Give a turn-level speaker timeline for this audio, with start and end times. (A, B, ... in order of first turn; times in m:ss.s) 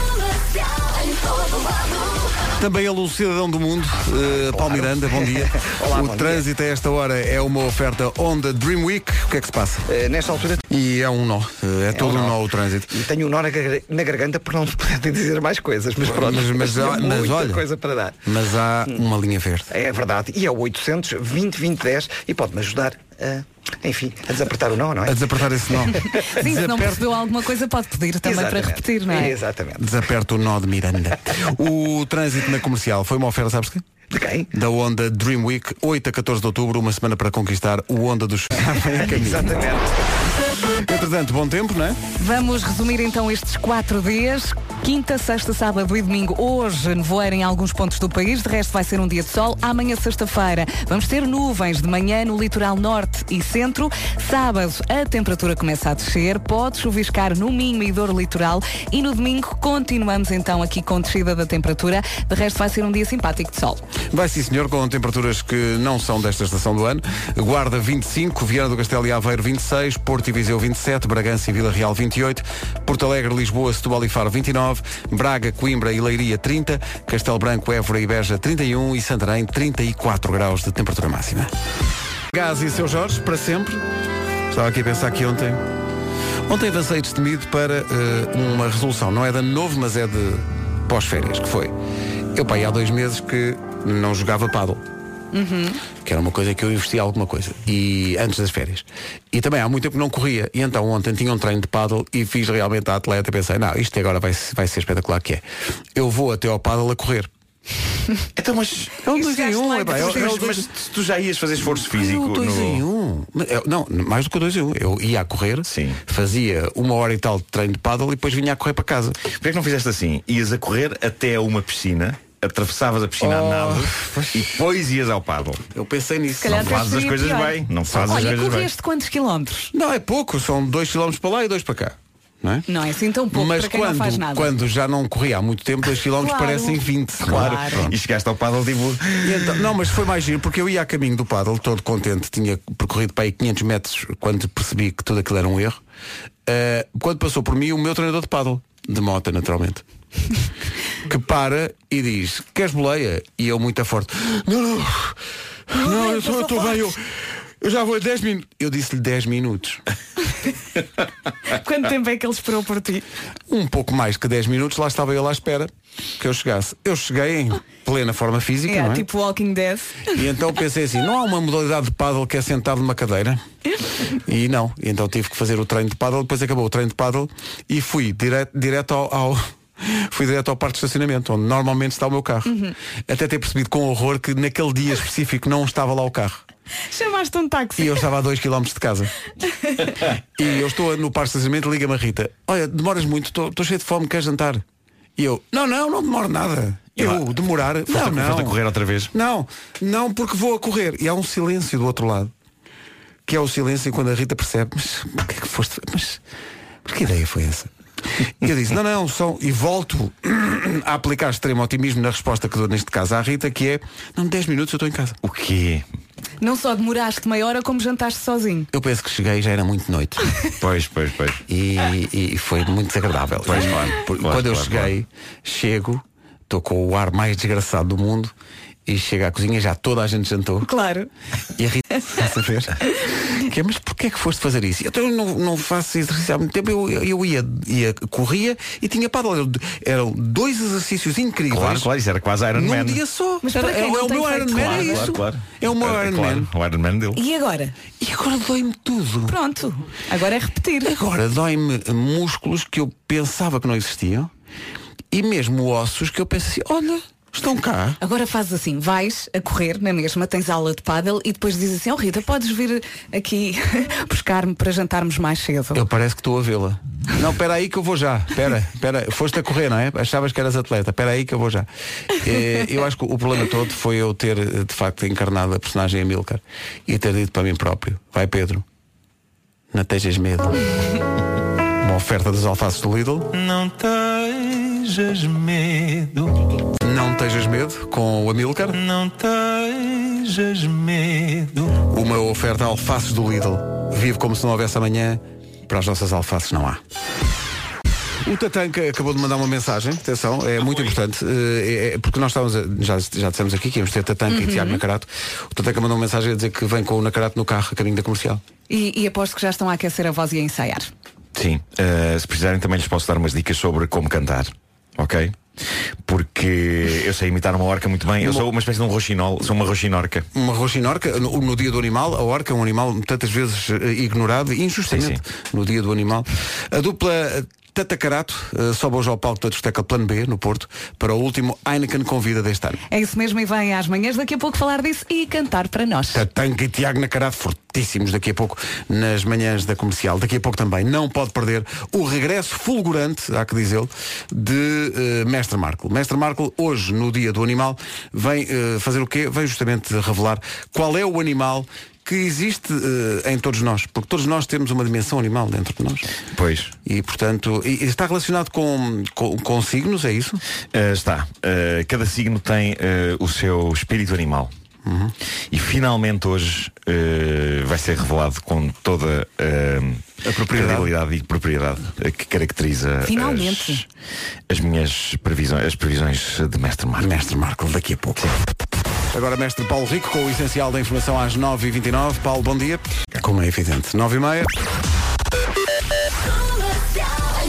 0:02.6-0:09.9 A
0:04.3-0:06.4 B
0:09.9-0:10.6 B
0:10.7-0:13.0 A
0:11.9-0:12.4 B
0:12.9-0:18.2 B
0:16.0-0:17.6 A
0:18.2-0:19.7 A
0:19.7-0:25.2 B
0:25.0-0:27.0 A
0:26.2-0:29.4 C
0:28.2-0:29.8 B
0:29.8-0:33.8 A
0:34.1-0:34.5 B
0:34.5-0:39.5 A
0:38.9-0:40.0 B
0:40.8-0:42.0 A
0:42.2-1:03.8 C
1:04.1-1:21.5 A
1:22.3-1:23.8 A
1:24.5-1:25.6 A
1:26.5-1:31.7 A
1:32.3-1:34.8 A
1:35.3-1:35.8 C
1:36.0-1:45.4 A
1:45.9-1:47.3 A
1:48.4-1:49.0 D
1:49.0-1:50.7 A
1:49.1-1:50.4 C
1:49.9-1:52.8 D
1:51.6-1:59.2 A
1:55.6-1:56.0 D
1:59.3-2:05.6 D
2:03.2-2:04.6 A
2:05.7-2:06.8 A
2:06.4-2:09.7 C
2:06.5-2:08.7 D
2:09.7-2:12.7 A
2:12.7-2:14.5 C
2:13.3-2:17.9 A
2:16.0-2:17.8 C
2:17.2-2:19.5 D
2:19.2-2:25.8 A
2:26.4-2:29.8 A
2:31.0-2:35.2 A
2:35.7-2:37.0 A
2:35.7-2:36.9 C
2:37.6-2:39.8 A
2:41.5-2:43.0 C
2:43.5-2:49.0 A
2:48.7-2:50.1 C
2:50.1-2:53.4 A
2:54.2-3:02.5 A
3:02.5-3:02.7 C
3:03.1-3:06.4 A
3:06.9-3:08.1 C
3:07.8-3:09.1 A
3:10.4-3:14.6 A
3:15.2-3:18.6 A
3:17.0-3:17.3 D
3:17.9-3:19.1 D
3:19.1-3:22.3 A
3:23.2-3:26.2 A
3:26.8-3:27.7 A
3:28.4-3:35.2 A
3:35.2-3:35.8 D
3:36.4-3:38.7 C
3:38.7-3:40.2 A
3:40.6-3:41.4 D
3:41.5-3:48.3 A
3:43.4-3:44.9 D
3:48.8-3:50.7 A
3:50.6-3:51.1 C
3:51.6-4:01.9 A
4:01.5-4:03.0 D
4:02.5-4:06.5 A
4:03.4-4:05.2 C
4:04.5-4:07.2 D
4:07.2-4:07.7 C
4:08.0-4:09.4 A
4:09.3-4:10.9 C
4:10.8-4:14.3 A
4:15.1-4:18.0 A
4:18.0-4:25.8 C
4:25.7-4:38.6 A
4:39.7-4:40.6 A
4:41.8-4:43.3 A
4:43.3-4:46.4 E
4:46.8-4:48.8 A
4:48.7-4:51.8 E
4:51.8-4:56.8 A
4:58.2-5:08.4 A
5:04.3-5:04.8 C
5:08.7-5:10.9 C
5:11.3-5:15.4 D
5:16.0-5:20.2 D
5:20.3-5:32.8 A
5:24.9-5:25.2 D
5:32.9-5:36.2 C
5:36.1-5:56.0 A
5:56.3-5:56.7 D
5:56.8-6:00.4 A
6:00.7-6:04.5 D
6:04.8-6:05.1 A
6:05.5-6:13.8 D
6:10.2-6:10.9 A
6:13.0-6:13.8 C
6:14.5-6:17.1 D
6:17.0-6:18.4 A
6:19.1-6:24.5 A